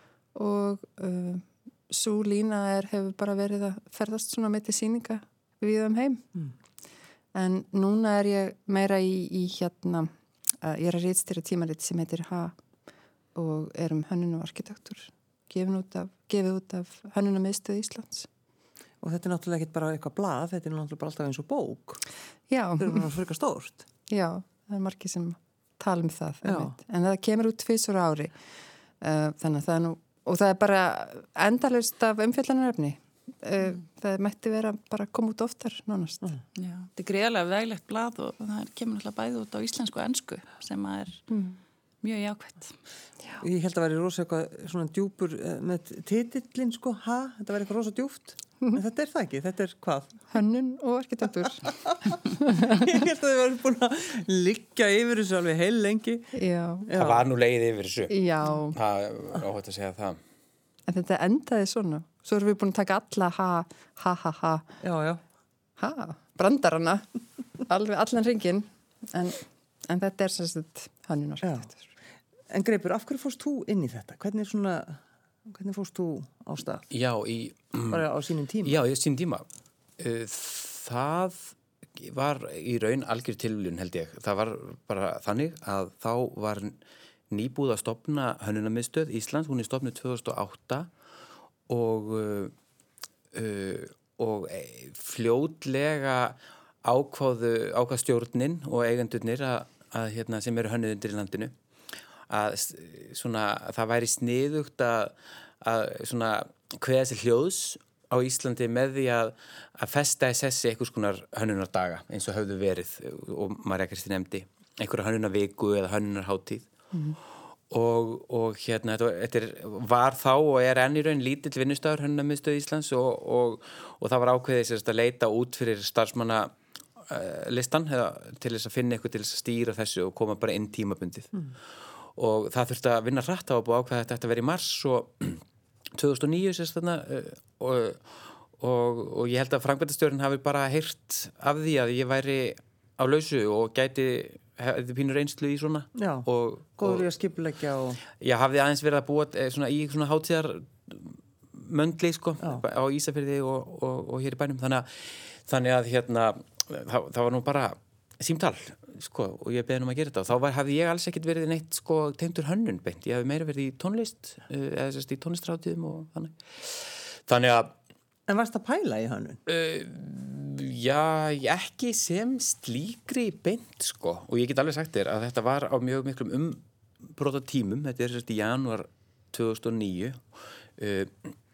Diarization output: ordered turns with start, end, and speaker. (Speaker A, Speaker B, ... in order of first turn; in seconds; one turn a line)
Speaker A: 0.3-6.3
Speaker A: 7.3-12.6
Speaker A: 13.3-18.3
Speaker B: 19.0-22.0
Speaker A: 22.5-23.1
Speaker B: 22.8-23.8
Speaker A: 24.1-28.4
Speaker B: 26.4-26.7
Speaker A: 29.0-36.3
Speaker C: 36.5-41.2
Speaker A: 41.3-41.6
Speaker C: 42.0-42.7
Speaker B: 43.4-50.2
Speaker A: 50.3-51.7
Speaker B: 51.7-56.3
Speaker A: 52.2-52.8
Speaker A: 56.3-56.9
Speaker B: 56.9-57.2
Speaker D: 57.0-60.2
Speaker A: 58.1-58.8
Speaker A: 60.9-64.7
Speaker B: 64.8-65.2
Speaker A: 65.8-67.1
Speaker A: 67.6-71.8
Speaker B: 72.5-76.8
Speaker D: 76.9-78.1
Speaker B: 77.9-78.8
Speaker D: 78.6-79.5
Speaker D: 80.0-86.8
Speaker D: 87.3-90.9
Speaker D: 91.7-92.5
Speaker D: 93.3-101.5
Speaker D: 102.3-116.7
Speaker D: 117.7-131.4
Speaker D: 132.2-135.4
Speaker D: 135.9-147.1
Speaker B: 145.9-146.3
Speaker B: 146.8-148.0
Speaker D: 148.2-167.7
Speaker B: 168.3-169.4
Speaker D: 169.5-180.2
Speaker D: 180.8-181.3